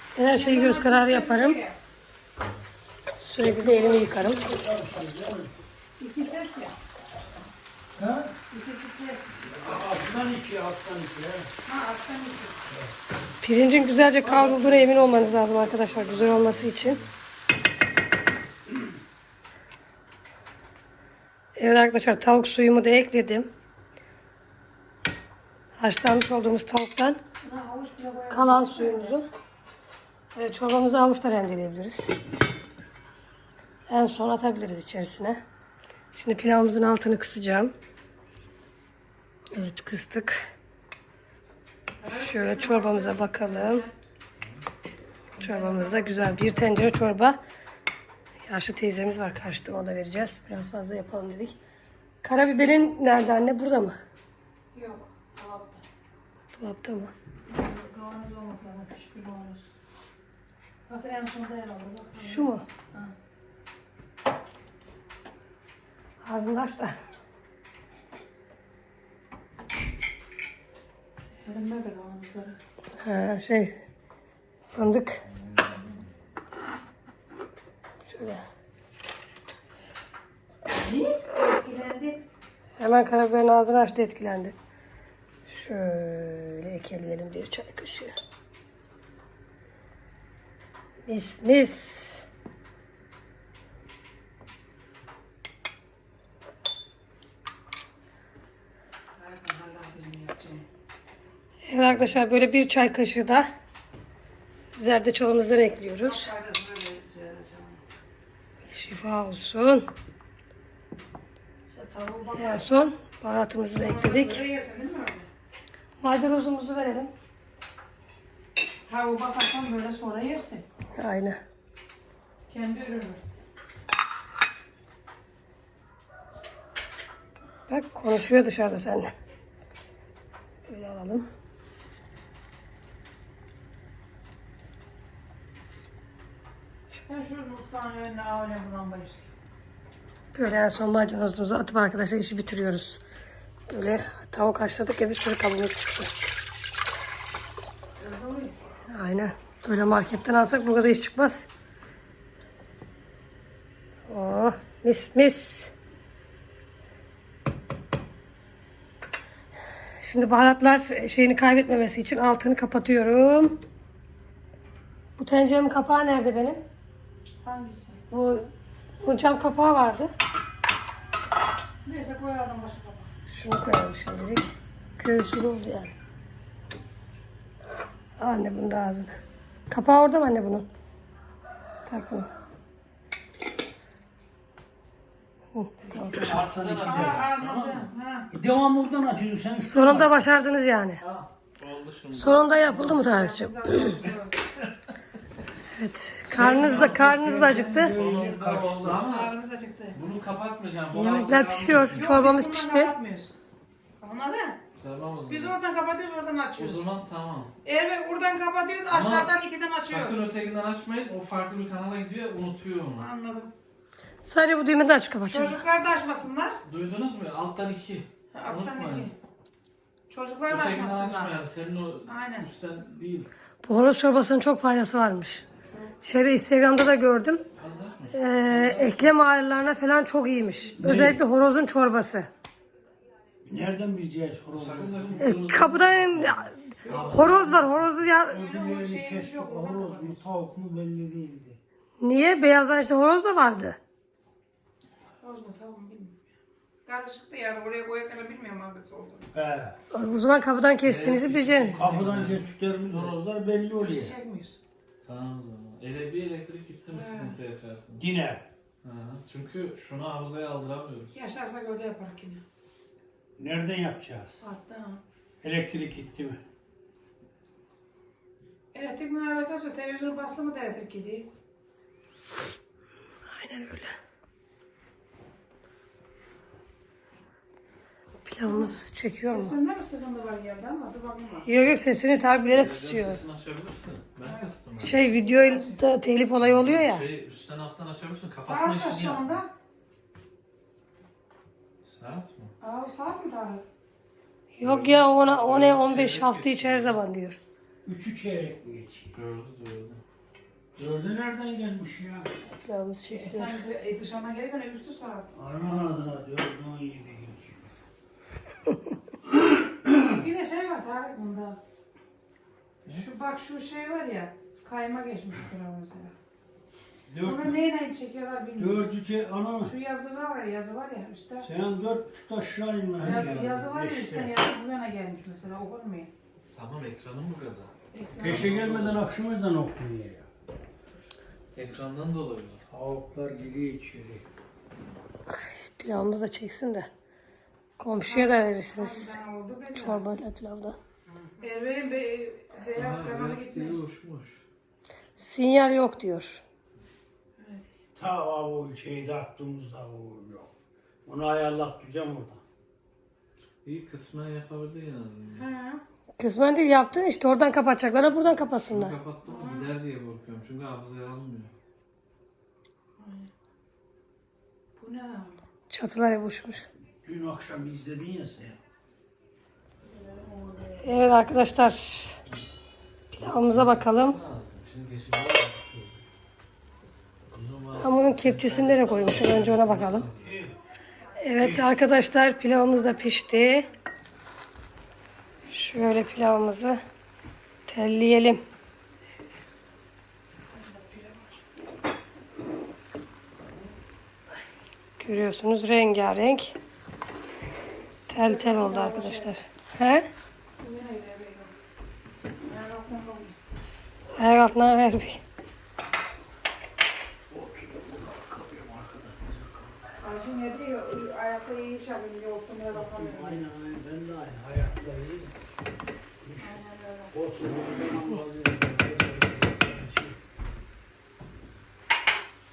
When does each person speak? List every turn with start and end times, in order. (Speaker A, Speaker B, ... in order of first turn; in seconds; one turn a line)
Speaker A: 0.1-1.6
Speaker B: 0.2-1.8
Speaker A: 3.2-4.4
Speaker C: 3.4-5.6
Speaker B: 6.0-6.8
Speaker C: 8.0-8.3
Speaker B: 8.5-9.3
Speaker C: 9.5-11.5
Speaker B: 11.7-12.6
Speaker A: 13.4-17.0
Speaker D: 14.8-17.1
Speaker A: 21.6-23.5
Speaker A: 25.8-27.2
Speaker B: 27.4-29.2
Speaker A: 28.3-29.2
Speaker A: 30.3-32.1
Speaker A: 33.9-35.4
Speaker A: 36.1-37.7
Speaker A: 39.5-40.4
Speaker B: 42.0-43.9
Speaker A: 42.1-43.9
Speaker B: 45.4-46.7
Speaker A: 45.4-47.4
Speaker A: 48.5-51.6
Speaker A: 52.2-54.0
Speaker B: 54.7-55.8
Speaker A: 56.5-57.1
Speaker B: 57.5-59.6
Speaker B: 60.9-63.1
Speaker A: 62.2-62.6
Speaker A: 66.2-67.0
Speaker B: 71.4-72.6
Speaker A: 73.0-73.8
Speaker A: 74.7-75.2
Speaker A: 78.1-78.4
Speaker B: 80.7-82.2
Speaker A: 82.8-84.5
Speaker A: 85.5-88.2
Speaker A: 91.1-92.2
Speaker B: 99.2-100.7
Speaker A: 101.7-103.5
Speaker A: 104.7-106.3
Speaker B: 106.0-107.8
Speaker A: 108.7-109.9
Speaker B: 111.7-112.7
Speaker A: 112.4-114.4
Speaker B: 113.8-115.3
Speaker A: 116.0-117.1
Speaker B: 118.9-120.6
Speaker A: 121.0-121.4
Speaker B: 122.5-123.2
Speaker A: 127.7-129.1
Speaker A: 130.7-131.3
Speaker B: 137.1-139.3
Speaker A: 140.3-143.0
Speaker A: 143.7-146.1
Speaker B: 148.0-148.6
Speaker A: 148.9-151.5
Speaker A: 154.1-155.7
Speaker A: 160.0-163.6
Speaker A: 165.2-166.6
Speaker B: 167.4-168.0
Speaker A: 168.1-168.5
Speaker A: 169.0-170.1
Speaker B: 171.8-173.1
Speaker A: 173.3-174.5
Speaker A: 175.0-175.9
Speaker A: 178.2-179.2
Speaker A: 179.7-180.7
Speaker A: 181.9-182.3
Speaker A: 185.5-186.3
Speaker B: 185.9-186.3
Speaker D: 186.2-187.9
Speaker C: 186.2-187.3
Speaker B: 186.8-188.3
Speaker C: 188.3-190.2
Speaker A: 189.6-191.0
Speaker D: 191.0-192.9
Speaker A: 192.1-193.8
Speaker B: 192.7-194.5
Speaker A: 195.7-198.0
Speaker C: 196.3-199.0
Speaker D: 196.3-199.3
Speaker B: 199.0-200.0
Speaker D: 199.9-202.1
Speaker A: 200.9-202.9
Speaker B: 201.8-203.3
Speaker B: 204.0-204.6
Speaker D: 204.8-205.6
Speaker B: 205.3-206.8
Speaker D: 206.6-207.5
Speaker B: 207.6-210.2
Speaker D: 208.9-213.1
Speaker B: 213.0-213.5
Speaker A: 214.2-215.6
Speaker B: 215.3-216.6
Speaker D: 216.7-219.1
Speaker B: 218.3-219.1
Speaker B: 220.1-221.4
Speaker D: 220.5-223.3
Speaker B: 222.1-222.5
Speaker A: 223.6-225.4
Speaker A: 226.0-227.4
Speaker D: 227.5-229.1
Speaker A: 228.1-232.3
Speaker C: 230.8-231.2
Speaker C: 233.4-235.3
Speaker D: 234.5-238.1
Speaker A: 235.2-238.4
Speaker B: 236.8-237.3
Speaker C: 238.3-241.6
Speaker B: 238.3-240.2
Speaker A: 242.0-243.8
Speaker B: 245.2-246.2
Speaker B: 246.8-249.3
Speaker C: 249.3-249.8
Speaker A: 249.9-251.8
Speaker D: 250.8-253.2
Speaker C: 251.8-254.2
Speaker B: 253.8-254.6
Speaker D: 255.0-258.0
Speaker B: 256.9-257.4
Speaker C: 258.0-258.4
Speaker D: 258.8-261.1
Speaker B: 261.1-262.4
Speaker C: 263.4-264.4
Speaker B: 264.4-265.0
Speaker C: 265.4-266.4
Speaker B: 268.7-271.3
Speaker A: 273.3-273.9
Speaker A: 278.2-279.6
Speaker B: 278.4-281.5
Speaker A: 281.5-283.2
Speaker D: 282.5-285.0
Speaker B: 284.2-285.8
Speaker A: 284.8-287.1
Speaker D: 286.4-289.4
Speaker B: 288.4-289.5
Speaker D: 291.8-292.5
Speaker B: 292.6-293.6
Speaker A: 294.5-297.4
Speaker D: 294.6-297.0
Speaker C: 297.9-299.1
Speaker D: 299.1-300.0
Speaker C: 300.8-302.3
Speaker A: 302.5-303.6
Speaker B: 303.1-305.3
Speaker C: 305.3-307.6
Speaker C: 309.7-310.0
Speaker B: 310.1-311.6
Speaker B: 312.9-316.1
Speaker C: 317.1-317.5
Speaker B: 317.2-318.9
Speaker C: 318.6-319.7
Speaker B: 319.6-321.5
Speaker C: 321.4-324.3
Speaker D: 323.0-323.6
Speaker B: 323.0-326.1
Speaker D: 326.5-329.1
Speaker B: 327.9-328.5
Speaker C: 328.2-330.3
Speaker D: 331.5-332.6
Speaker C: 332.7-334.2
Speaker A: 335.3-336.9
Speaker A: 337.8-339.2
Speaker B: 337.9-340.1
Speaker A: 339.7-340.8
Speaker B: 341.1-343.8
Speaker D: 342.8-344.4
Speaker A: 345.2-346.4
Speaker B: 347.4-347.7
Speaker C: 347.9-350.5
Speaker C: 351.1-352.4
Speaker D: 353.6-355.5
Speaker B: 355.3-355.8
Speaker A: 356.2-359.0
Speaker D: 358.6-361.5
Speaker B: 359.2-359.7
Speaker B: 363.0-363.3
Speaker B: 364.8-365.4
Speaker A: 365.7-366.7
Speaker C: 367.0-368.6
Speaker B: 369.8-371.1
Speaker A: 370.8-372.2
Speaker A: 373.1-374.2
Speaker D: 373.2-376.0
Speaker D: 377.3-380.4
Speaker A: 377.8-380.1
Speaker C: 380.2-380.6
Speaker A: 381.2-383.7
Speaker C: 381.4-381.7
Speaker A: 385.5-386.8
Speaker A: 387.7-388.4
Speaker B: 390.5-391.4
Speaker A: 395.0-396.6
Speaker A: 398.1-400.1
Speaker B: 398.1-399.3
Speaker B: 400.6-401.5
Speaker B: 402.4-403.4
Speaker A: 404.1-405.2
Speaker C: 407.3-409.8
Speaker B: 410.0-413.4
Speaker C: 412.7-415.3
Speaker C: 416.2-416.6
Speaker B: 416.4-417.1
Speaker C: 417.1-420.2